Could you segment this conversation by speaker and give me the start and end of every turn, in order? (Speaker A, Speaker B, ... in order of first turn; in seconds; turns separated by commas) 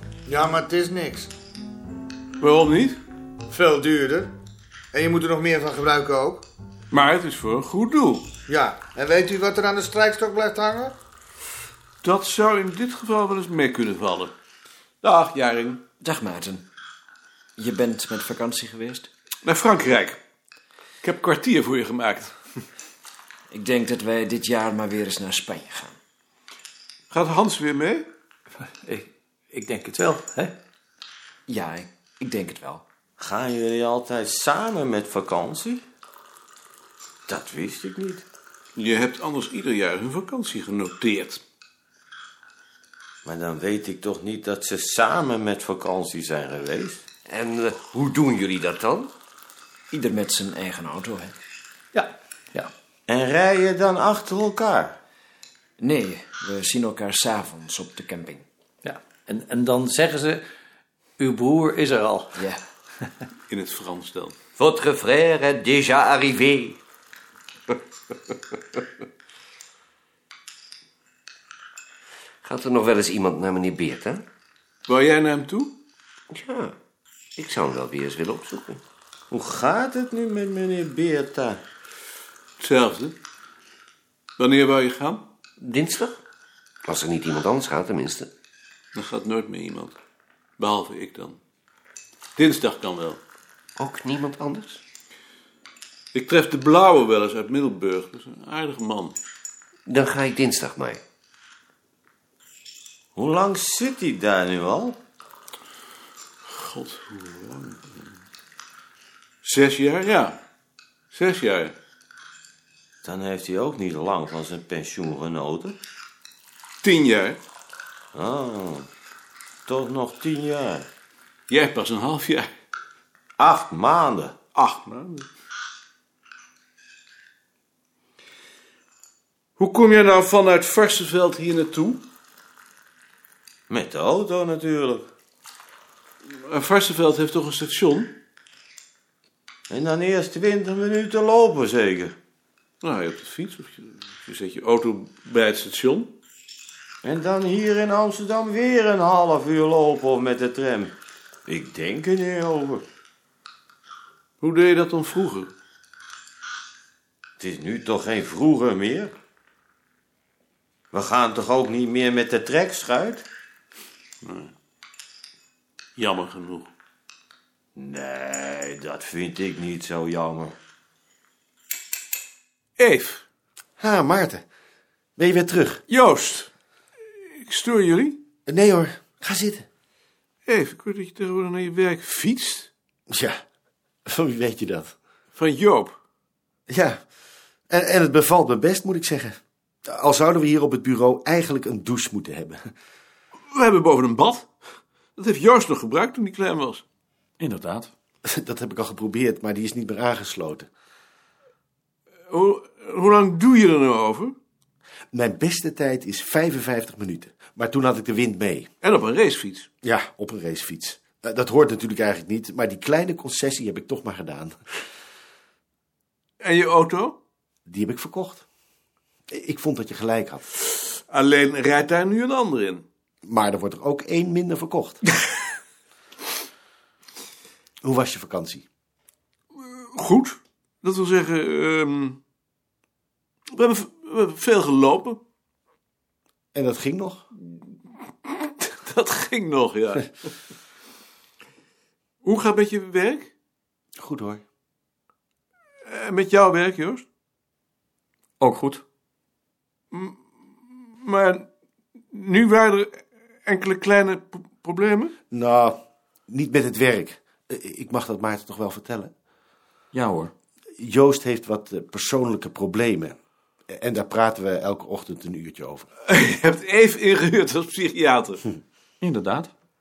Speaker A: 0.3-1.3, Speaker B: 2.4-3.0, Speaker A: 3.5-4.3, Speaker A: 4.9-6.4, Speaker B: 6.9-8.3, Speaker A: 8.5-10.9, Speaker B: 12.0-14.3, Speaker B: 15.0-15.8, Speaker C: 16.0-16.7, Speaker C: 17.6-19.1, Speaker B: 19.4-20.2, Speaker B: 21.0-22.3, Speaker C: 23.5-26.0, Speaker B: 27.1-28.1, Speaker D: 28.8-30.5, Speaker C: 31.5-32.8, Speaker E: 33.2-35.8, Speaker E: 37.3-38.2, Speaker B: 38.8-41.4, Speaker E: 43.2-47.1, Speaker F: 47.3-49.1, Speaker C: 49.9-51.4, Speaker D: 52.0-52.7, Speaker E: 53.1-55.0, Speaker C: 55.8-58.5, Speaker D: 58.9-60.4, Speaker D: 61.2-62.4, Speaker C: 62.4-62.6, Speaker B: 63.5-64.4, Speaker F: 64.6-66.8, Speaker F: 72.4-74.2, Speaker B: 74.9-75.8, Speaker F: 76.3-76.7, Speaker F: 77.4-78.8, Speaker E: 79.3-81.6, Speaker B: 82.6-83.2, Speaker B: 84.4-85.3, Speaker F: 85.6-86.2, Speaker F: 86.8-88.3, Speaker B: 88.9-90.0, Speaker B: 90.6-91.4, Speaker B: 92.4-93.2, Speaker F: 93.8-94.8, Speaker B: 96.1-99.2, Speaker F: 99.9-101.0, Speaker E: 103.2-105.0, Speaker B: 106.5-108.1, Speaker B: 109.4-110.4, Speaker B: 111.1-111.8, Speaker E: 113.0-115.8, Speaker B: 116.8-117.4, Speaker E: 118.1-118.9, Speaker E: 119.7-120.9, Speaker B: 121.5-122.5, Speaker E: 123.4-124.3, Speaker B: 124.5-125.3, Speaker B: 129.6-132.0, Speaker E: 133.7-135.1, Speaker B: 136.3-138.2, Speaker E: 139.7-142.2, Speaker B: 142.8-146.1, Speaker E: 147.0-151.0, Speaker E: 151.5-152.8, Speaker B: 154.4-155.5, Speaker E: 157.4-159.1, Speaker E: 160.9-163.3, Speaker B: 164.2-164.5, Speaker B: 166.0-166.7, Speaker E: 167.8-170.6, Speaker B: 172.8-173.2, Speaker G: 173.8-174.4, Speaker G: 175.2-175.8, Speaker B: 175.9-176.5, Speaker B: 177.3-178.2, Speaker G: 178.5-179.7, Speaker B: 180.5-182.7, Speaker G: 183.1-183.4, Speaker G: 184.1-184.9, Speaker B: 185.3-186.0, Speaker G: 186.7-187.0, Speaker G: 187.7-192.6, Speaker B: 193.5-194.5, Speaker B: 195.2-196.8, Speaker D: 197.4-197.9, Speaker G: 198.2-200.7, Speaker B: 202.3-204.4, Speaker G: 205.1-208.7, Speaker B: 208.8-209.7, Speaker G: 209.8-214.6, Speaker B: 216.4-217.2, Speaker G: 217.7-218.4, Speaker G: 219.3-220.4, Speaker B: 221.1-222.8, Speaker G: 223.2-225.0, Speaker G: 227.8-228.7, Speaker B: 229.6-232.2, Speaker B: 233.5-235.2, Speaker G: 236.5-237.2, Speaker B: 238.2-240.1, Speaker B: 242.2-243.3, Speaker G: 244.0-244.4, Speaker B: 245.9-247.1, Speaker D: 248.4-248.8, Speaker B: 249.9-250.2, Speaker B: 251.0-251.5, Speaker B: 252.1-255.1, Speaker G: 255.3-255.8, Speaker G: 256.3-259.1, Speaker D: 259.9-260.3, Speaker G: 260.8-263.2, Speaker G: 263.7-265.9, Speaker B: 266.1-268.4, Speaker D: 269.0-269.5